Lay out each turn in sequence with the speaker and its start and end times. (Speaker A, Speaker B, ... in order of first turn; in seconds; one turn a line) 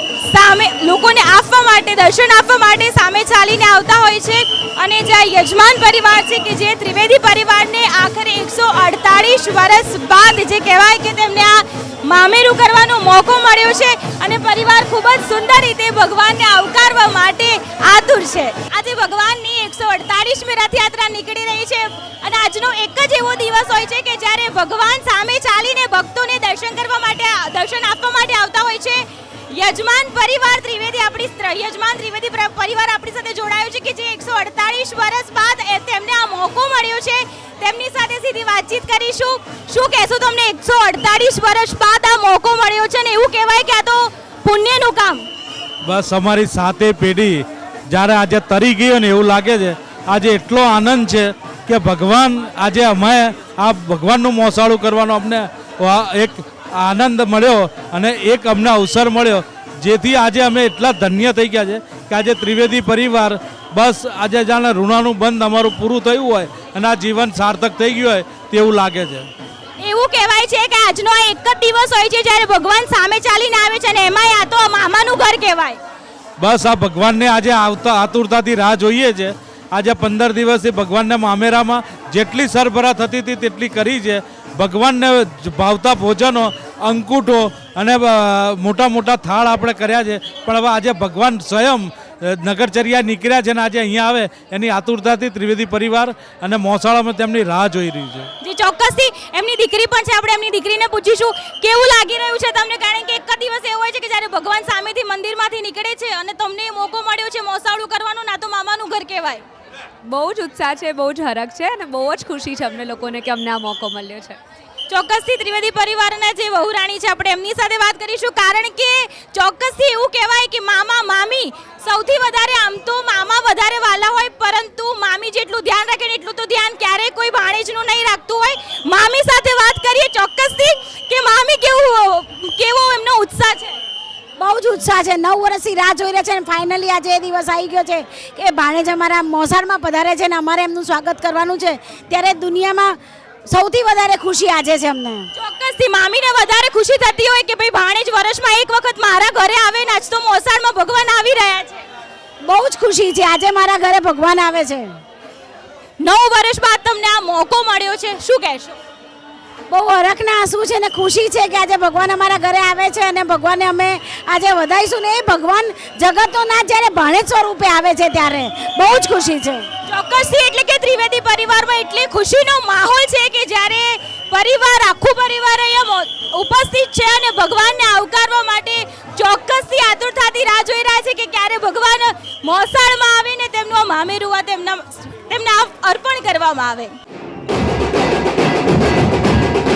Speaker A: 0.2-45.2
Speaker B: 45.9-69.3
Speaker A: 69.8-75.8
Speaker B: 76.4-98.3
Speaker A: 98.4-109.4
Speaker C: 110.1-114.4
Speaker A: 114.9-133.8
Speaker D: 134.4-142.9
Speaker D: 143.5-145.3
Speaker A: 145.3-151.8
Speaker D: 152.4-154.9
Speaker A: 156.0-158.8
Speaker D: 159.7-169.6
Speaker A: 169.9-186.9